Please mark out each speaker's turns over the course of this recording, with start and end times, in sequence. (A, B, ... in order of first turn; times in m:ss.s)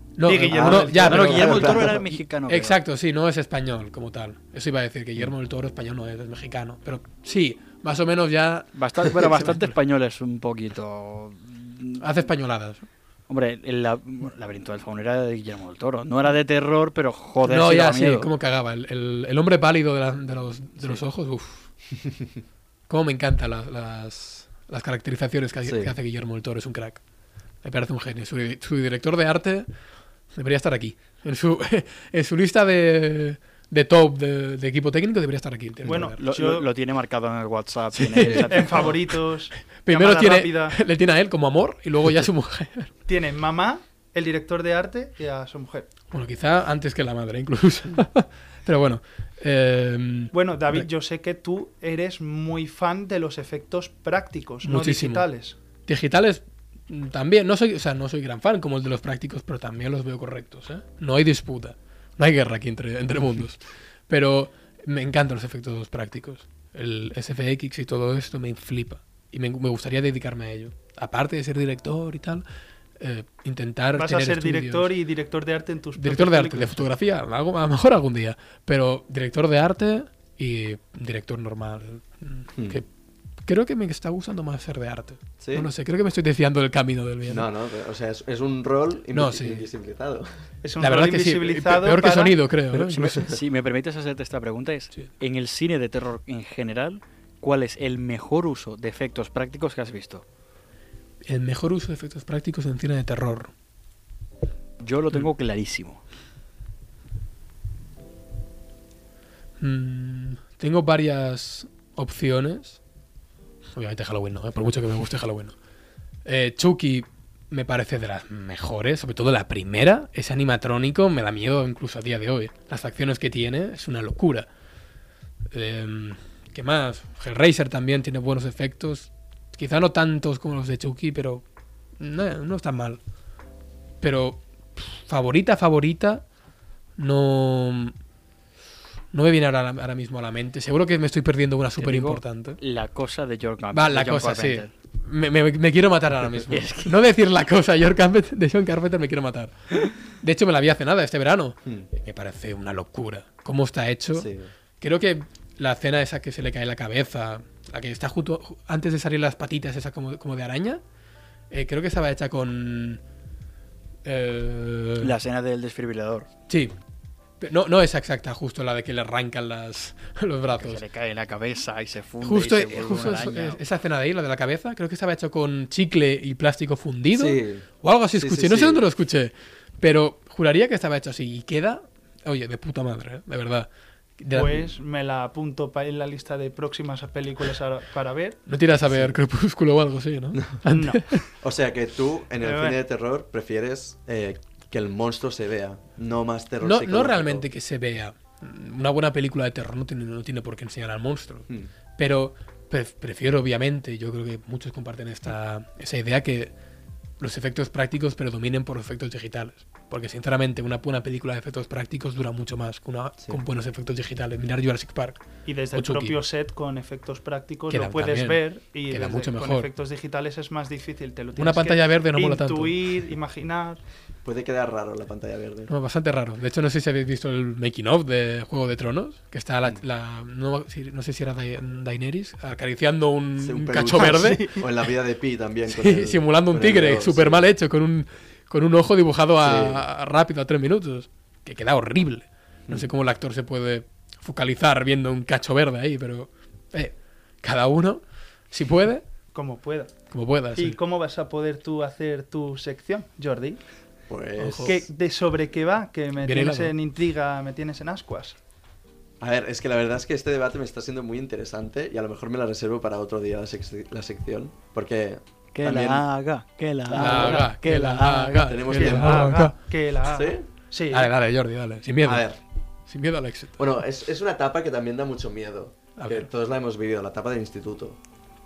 0:00.2-0:09.7 A
0:00.2-0:01.4 B
0:00.5-0:02.0 C
0:01.0-0:02.8 D
0:08.7-0:12.0 D
0:12.0-0:12.8 A
0:13.3-0:18.3 D
0:17.4-0:21.6 A
0:22.9-0:27.0 A
0:25.6-0:25.9 C
0:27.6-0:29.7 A
0:30.3-0:36.2 A
0:35.8-0:36.7 B
0:35.9-0:39.0 D
0:37.9-0:39.1 A
0:38.3-0:40.8 B
0:39.8-0:42.9 A
0:43.1-0:45.9 B
0:46.1-0:50.9 A
0:50.3-0:55.6 B
0:54.6-0:55.3 A
0:55.8-1:12.4 A
1:13.0-1:14.9 A
1:13.9-1:16.8 B
1:16.0-1:22.9 A
1:22.6-1:22.8 C
1:23.4-1:27.5 A
1:25.4-1:25.7 C
1:27.3-1:30.3 C
1:29.1-1:29.6 A
1:30.6-1:32.4 B
1:30.8-1:33.1 A
1:32.7-1:33.4 C
1:32.7-1:40.2 D
1:41.2-1:43.5 A
1:44.8-1:46.0 D
1:49.6-1:52.8 A
1:53.7-1:55.5 A
1:56.2-2:04.5 A
2:05.5-2:11.4 A
2:12.0-2:13.0 A
2:14.0-2:16.2 A
2:17.0-2:17.9 A
2:19.1-2:22.6 A
2:21.8-2:24.7 D
2:23.7-2:40.8 A
2:26.4-2:27.0 D
2:34.1-2:34.5 C
2:41.5-2:43.0 A
2:44.0-2:45.1 A
2:45.0-2:46.3 D
2:47.4-2:50.8 A
2:50.6-2:53.6 D
2:52.2-3:04.7 A
2:57.1-2:58.8 C
3:04.3-3:08.4 B
3:08.5-3:11.2 A
3:08.9-3:09.2 C
3:10.7-3:11.3 B
3:11.4-3:17.4 C
3:12.4-3:12.8 B
3:16.6-3:26.5 A
3:27.2-3:35.2 A
3:35.4-3:43.8 B
3:35.7-3:36.1 A
3:37.7-3:39.7 A
3:41.4-3:42.8 A
3:44.2-3:45.7 C
3:45.7-3:54.5 A
3:53.4-3:57.5 C
3:53.9-3:54.6 B
3:55.7-4:09.0 A
3:59.4-3:59.8 C
4:09.3-4:09.9 B
4:10.1-4:10.8 A
4:10.5-4:13.6 B
4:14.1-4:14.8 C
4:14.4-4:14.8 A
4:14.6-4:18.4 B
4:16.2-4:16.7 A
4:19.2-4:26.0 C
4:25.5-4:28.6 D
4:26.9-4:29.5 A
4:26.9-4:27.4 C
4:27.0-4:27.4 B
4:28.4-4:29.5 C
4:28.7-4:31.1 B
4:30.1-4:30.5 C
4:30.9-4:32.3 A
4:32.0-4:32.4 C
4:32.9-4:33.6 A
4:33.6-4:38.0 C
4:36.0-4:36.3 A